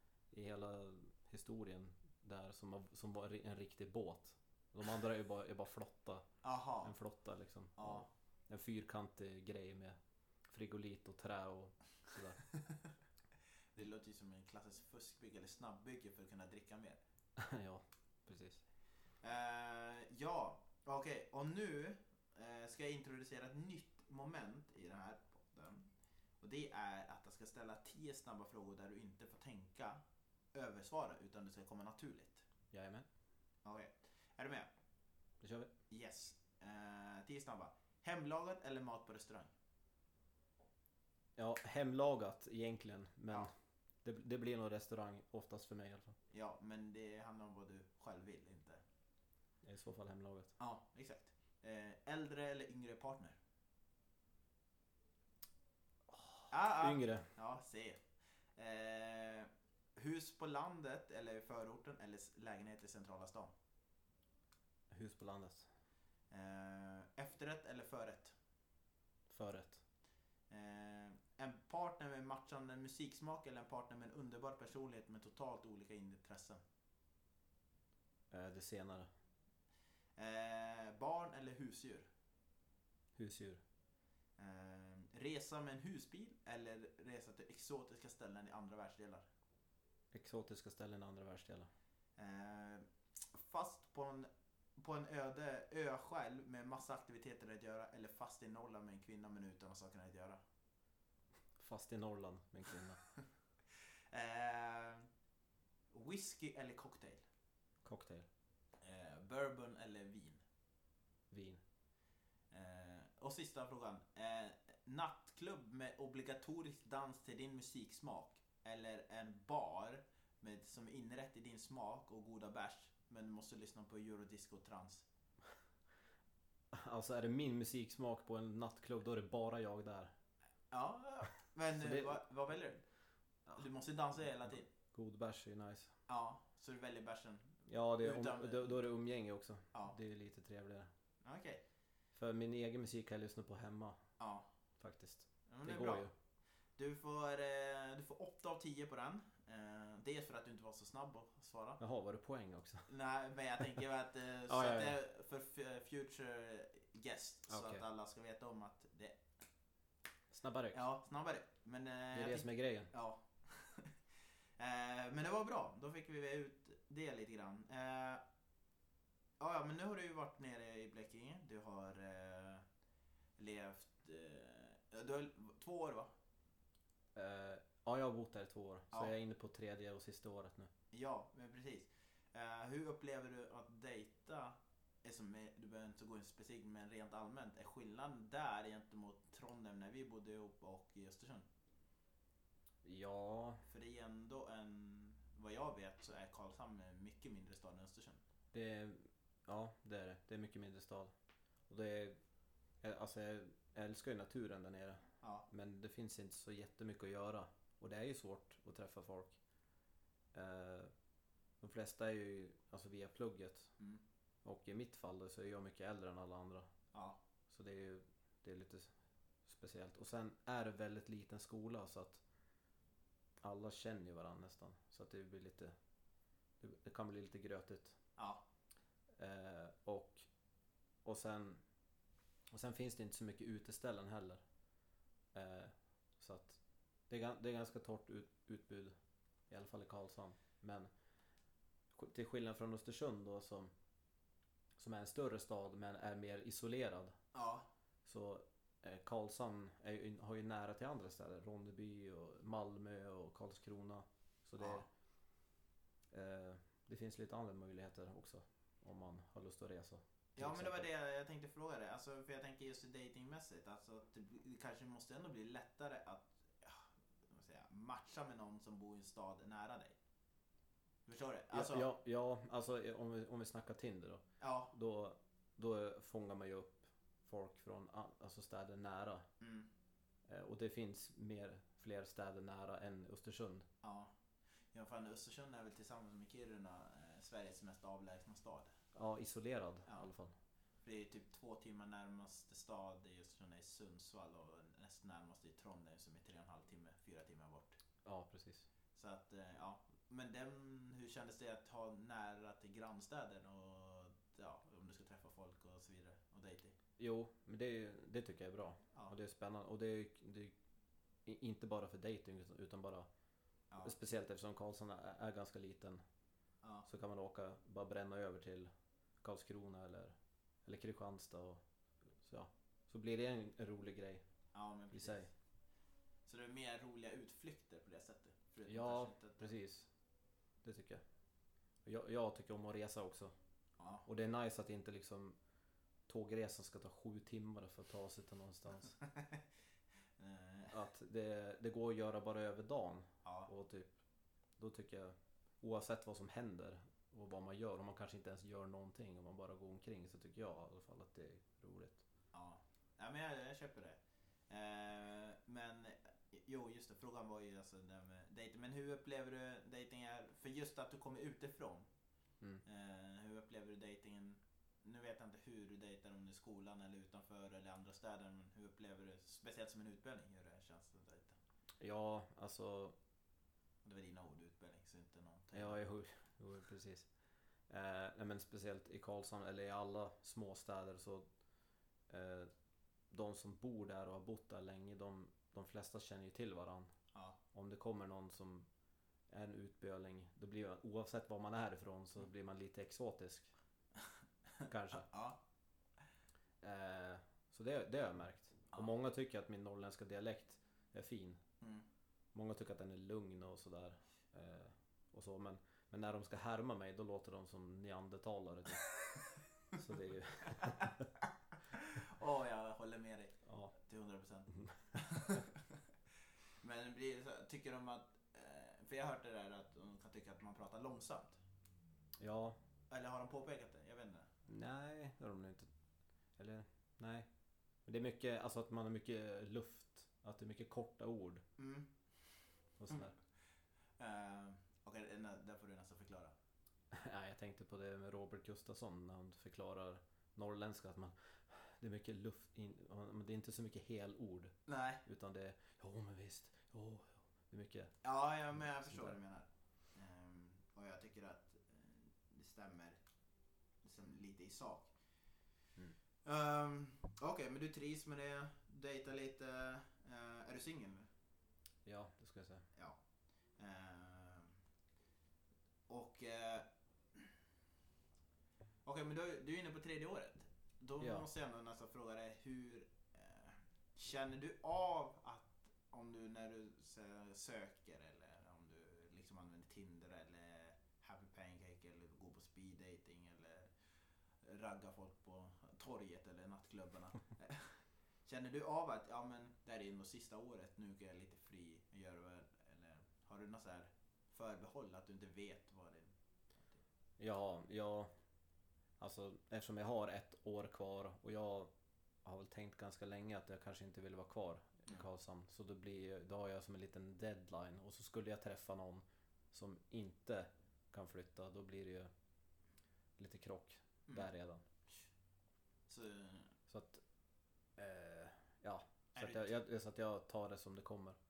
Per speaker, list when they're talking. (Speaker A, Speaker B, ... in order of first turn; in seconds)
Speaker A: 0.3-6.3, 6.8-10.0, 10.5-12.4, 17.4-18.6, 32.7-33.1, 35.4-35.7, 41.4-43.5, 44.0-46.1, 49.6-50.5, 56.1-57.3, 64.9-65.7, 69.3-69.8, 78.3-79.1, 83.2-83.6, 90.1-91.7, 101.6-103.0, 107.8-108.3, 111.3-111.6, 126.7-130.1, 131.7-132.2, 134.9-135.9, 137.7-140.9, 142.1-144.0, 144.8-146.1, 151.8-152.9, 154.5-155.0, 157.5-157.8, 160.3-160.8, 162.1-162.9, 177.1-180.7, 192.8-193.6, 198.5-201.1, 201.7-202.2, 202.8-209.4, 210.3-210.9, 211.6-213.7, 214.4-216.7, 217.5-218.9, 219.4-222.2, 223.4-225.7, 226.6-228.0, 229.2-230.3, 231.0-231.6, 232.5-234.4, 235.3-238.9, 239.5-240.9, 241.9-243.7, 244.8-247.1, 248.1-254.8, 256.1-260.9, 271.5-279.2, 280.3-283.7, 288.9-290.3, 298.0-298.6, 307.0-310.5, 311.2-313.1, 313.8-316.0, 316.9-318.7, 319.2-321.6, 322.2-324.2, 324.9-325.3, 328.6-329.9, 330.6-331.0, 331.8-333.3, 334.1-335.4, 336.1-338.9, 340.7-344.0, 344.6-352.0, 371.8-372.9, 375.5-377.1, 377.7-381.3, 382.1-382.5, 383.1-386.9, 387.5-388.7, 389.3-393.5, 394.7-395.1, 396.6-401.4, 402.3-408.9, 409.7-411.1, 413.4-413.7, 414.6-415.4, 422.2-422.6, 424.5-425.7, 426.4-427.3, 427.9-431.4, 432.8-433.1, 436.9-447.9, 448.5-449.1, 461.8-462.6, 471.0-471.3, 497.2-498.1, 499.0-501.7, 502.2-512.1, 513.2-514.6, 516.7-517.0, 517.8-521.2
Speaker B: 6.4-6.9, 7.8-8.1, 13.7-17.0, 19.2-25.9, 26.4-30.0, 30.5-32.5, 33.6-34.7, 35.9-39.5, 46.3-48.8, 50.6-53.4, 56.5-58.0, 58.5-63.5, 66.3-68.3, 70.5-76.6, 80.2-82.1, 84.4-89.3, 92.2-100.4, 104.1-105.1, 105.9-107.2, 108.8-110.4, 112.5-125.0, 130.7-132.8, 133.6-134.7, 136.1-138.8, 141.2-141.6, 144.2-144.5, 145.5-146.1, 146.8-151.8, 152.9-159.2, 160.7-163.9, 164.6-168.2, 169.4-172.6, 173.4-176.1, 180.9-191.4, 193.7-198.2, 216.9-217.2, 228.2-228.4, 247.3-247.7, 254.6-254.9, 260.4-269.9, 271.1-271.9, 274.4-274.7, 279.4-279.7, 283.8-284.1, 284.7-288.7, 290.8-297.8, 298.9-306.7, 313.7-313.9, 324.5-325.3, 326.3-329.5, 333.8-334.1, 338.9-339.4, 340.2-340.8, 343.2-343.5, 352.3-354.0, 354.5-361.9, 362.6-371.4, 373.8-375.8, 394.6-395.4, 410.4-415.8, 416.6-421.4, 422.9-424.3, 431.6-431.9, 434.0-436.3, 444.7-445.0, 448.0-453.0, 453.8-454.9, 456.2-461.1, 463.6-464.5, 465.9-467.2, 468.8-483.8, 484.4-496.8, 515.9-516.5, 519.1-519.5